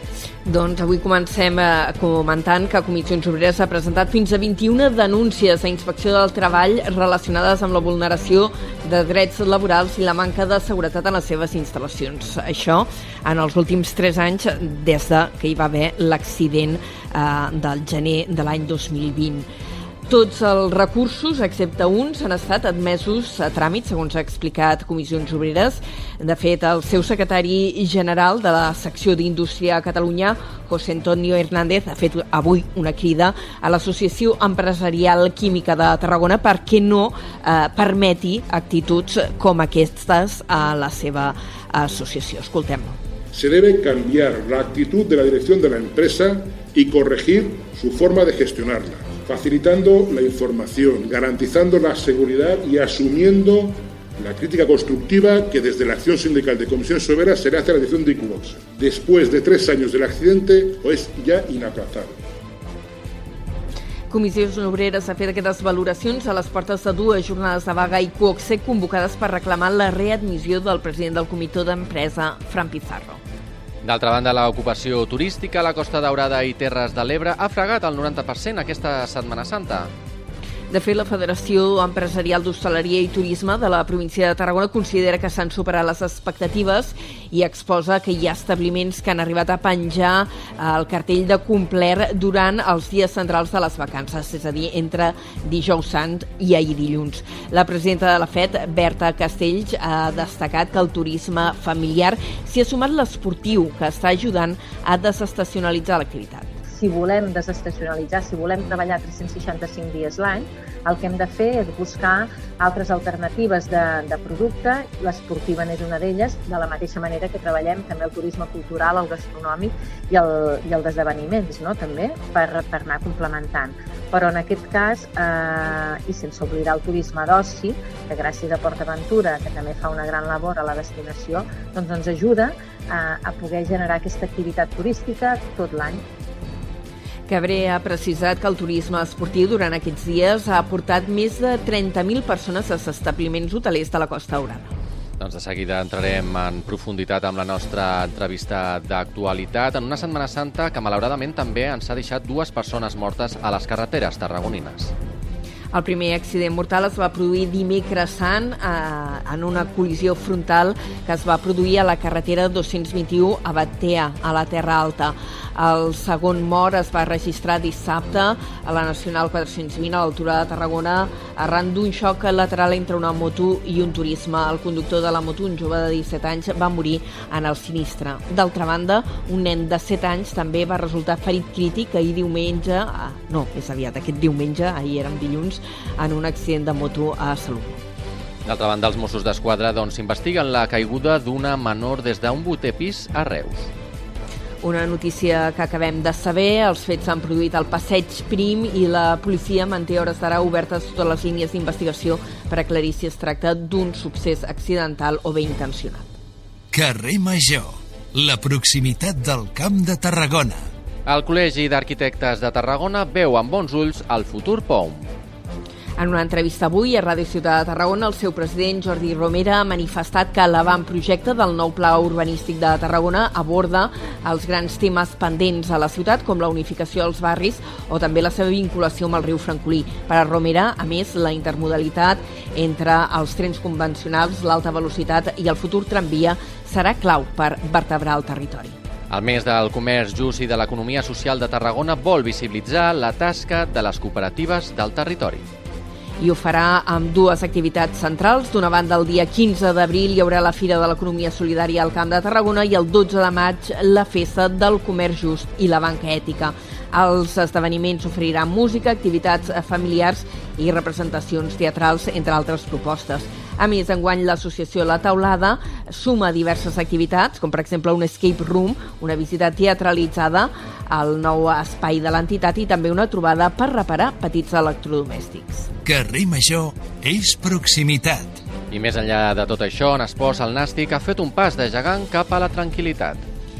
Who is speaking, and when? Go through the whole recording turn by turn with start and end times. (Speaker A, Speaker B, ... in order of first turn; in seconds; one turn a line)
Speaker A: 0.4-19.5
Speaker A: 20.1-43.0
Speaker B: 43.3-62.1
Speaker A: 64.1-73.2
Speaker C: 73.8-79.9
Speaker A: 80.7-106.5
Speaker D: 106.7-136.0
Speaker A: 137.3-144.7
Speaker C: 145.2-154.9
Speaker A: 155.7-187.8
Speaker C: 188.4-193.7
Speaker A: 194.6-206.1
Speaker E: 206.7-210.6
Speaker C: 211.1-215.1
Speaker A: 216.0-238.7
Speaker C: 239.1-245.4
Speaker A: 246.2-275.7
Speaker E: 275.9-278.3
Speaker C: 278.7-283.2